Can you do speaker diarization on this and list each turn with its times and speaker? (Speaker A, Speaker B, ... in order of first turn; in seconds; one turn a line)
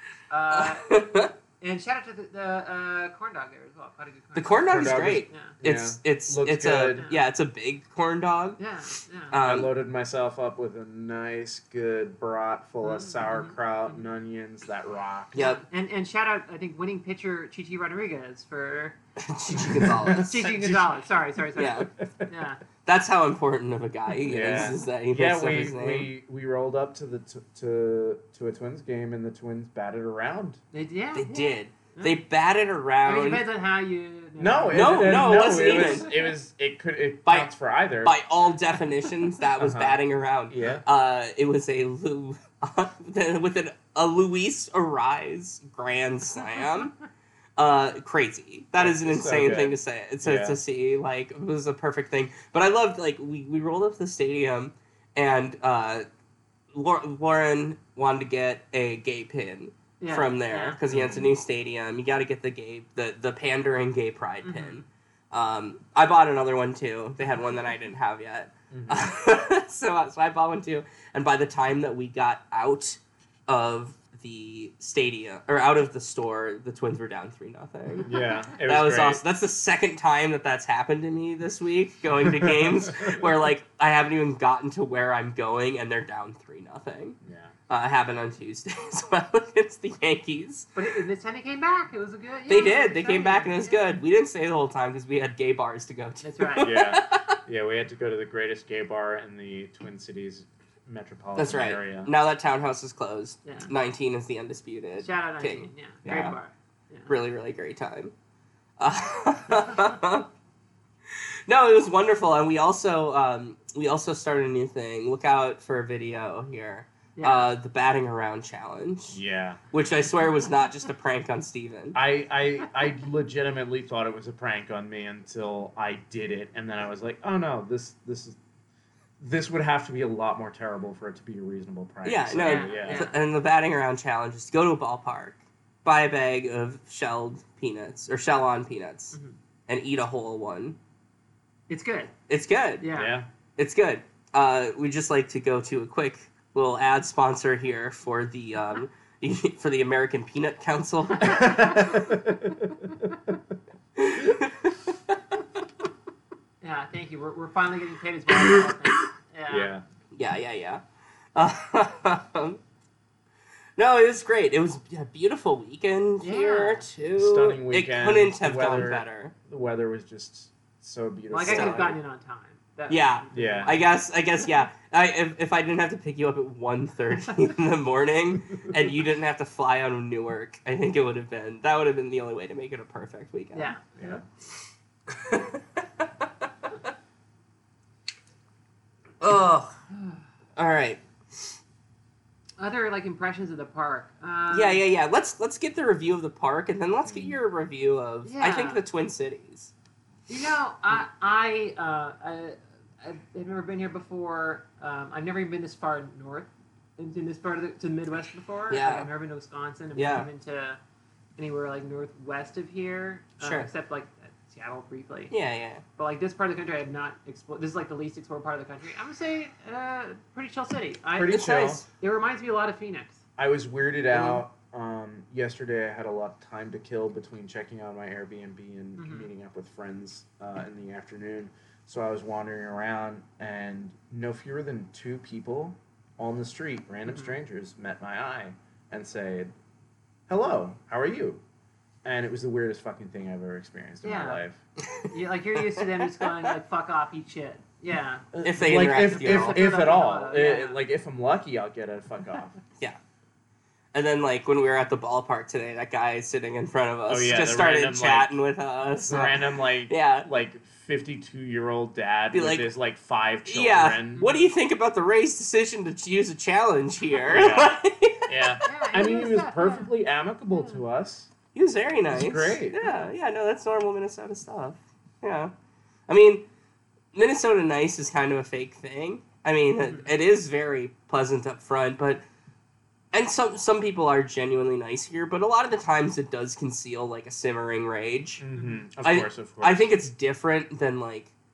Speaker A: 0.3-1.0
Speaker B: 0.5-1.3
Speaker A: 1.6-5.6
Speaker B: 4.4-8.6
Speaker C: 4.7-7.0
Speaker A: 7.0-7.2
Speaker A: 8.6-9.4
Speaker B: 9.3-9.7
Speaker C: 9.4-15.5
Speaker A: 12.8-14.0
Speaker B: 15.3-15.6
Speaker A: 15.4-19.0
Speaker B: 19.2-20.5
Speaker C: 19.6-21.0
Speaker A: 20.1-22.6
Speaker C: 21.5-22.3
Speaker B: 21.6-21.9
Speaker B: 22.9-26.1
Speaker C: 24.3-30.6
Speaker A: 30.7-32.2
Speaker B: 31.1-33.5
Speaker A: 33.0-35.9
Speaker C: 34.4-38.2
Speaker B: 34.7-36.1
Speaker B: 37.3-37.5
Speaker B: 38.0-47.0
Speaker C: 39.6-40.8
Speaker B: 47.6-56.1
Speaker C: 48.8-50.6
Speaker B: 56.7-87.2
Speaker A: 60.0-60.8
Speaker C: 60.9-61.3
Speaker A: 64.4-64.8
Speaker C: 68.7-69.1
Speaker C: 78.0-79.2
Speaker C: 87.2-87.5
Speaker B: 87.7-90.8
Speaker A: 90.8-93.9
Speaker B: 92.5-97.4
Speaker A: 96.2-96.8
Speaker C: 96.6-102.1
Speaker B: 101.4-106.4
Speaker A: 103.5-103.7
Speaker A: 105.0-107.1
Speaker C: 106.1-106.3
Speaker B: 107.1-108.1
Speaker B: 108.8-110.3
Speaker B: 111.5-119.2
Speaker A: 117.2-117.5
Speaker C: 119.1-119.6
Speaker B: 119.7-122.0
Speaker C: 122.0-128.4
Speaker C: 129.2-133.1
Speaker B: 132.0-139.2
Speaker A: 132.4-133.2
Speaker B: 139.7-140.8
Speaker A: 141.7-142.1
Speaker B: 142.3-142.9
Speaker A: 142.8-143.2
Speaker C: 142.9-143.3
Speaker B: 143.6-151.9
Speaker C: 151.2-153.4
Speaker B: 154.0-155.2
Speaker A: 156.6-159.7
Speaker C: 159.5-159.8
Speaker B: 160.1-160.8
Speaker B: 161.3-162.6
Speaker B: 163.8-169.3
Speaker A: 166.2-166.9
Speaker C: 167.2-172.0
Speaker A: 171.3-173.9
Speaker B: 171.4-171.9
Speaker B: 172.9-183.8
Speaker C: 173.3-173.8
Speaker A: 183.5-183.8
Speaker C: 184.0-184.2
Speaker B: 185.1-186.5
Speaker B: 189.2-189.7
Speaker B: 190.6-191.6
Speaker A: 192.6-194.8
Speaker B: 194.5-199.7
Speaker C: 197.1-197.4
Speaker A: 198.3-198.8
Speaker A: 200.3-210.8
Speaker B: 208.7-209.1
Speaker B: 210.0-210.3
Speaker A: 211.4-215.3
Speaker B: 213.4-213.7
Speaker B: 215.3-215.8
Speaker A: 216.0-223.2
Speaker C: 221.1-221.8
Speaker B: 221.3-221.8
Speaker C: 223.4-239.5
Speaker A: 229.0-229.3
Speaker A: 237.1-237.4
Speaker C: 240.3-241.4
Speaker C: 242.0-244.6
Speaker A: 244.0-244.4
Speaker B: 244.8-245.1
Speaker A: 245.1-250.8
Speaker B: 245.8-246.3
Speaker C: 248.3-252.6
Speaker B: 248.4-249.7
Speaker B: 253.9-260.3
Speaker C: 257.1-258.4
Speaker C: 259.1-264.3
Speaker B: 262.3-262.7
Speaker B: 263.5-268.7
Speaker A: 264.2-264.5
Speaker C: 267.2-267.8
Speaker C: 268.3-271.3
Speaker A: 268.6-269.9
Speaker A: 270.5-270.8
Speaker B: 271.5-275.5
Speaker C: 272.1-272.8
Speaker B: 276.1-276.4
Speaker B: 277.1-282.2
Speaker A: 279.8-280.1
Speaker B: 283.1-288.4
Speaker C: 288.4-289.9
Speaker A: 288.6-288.8
Speaker B: 289.0-291.3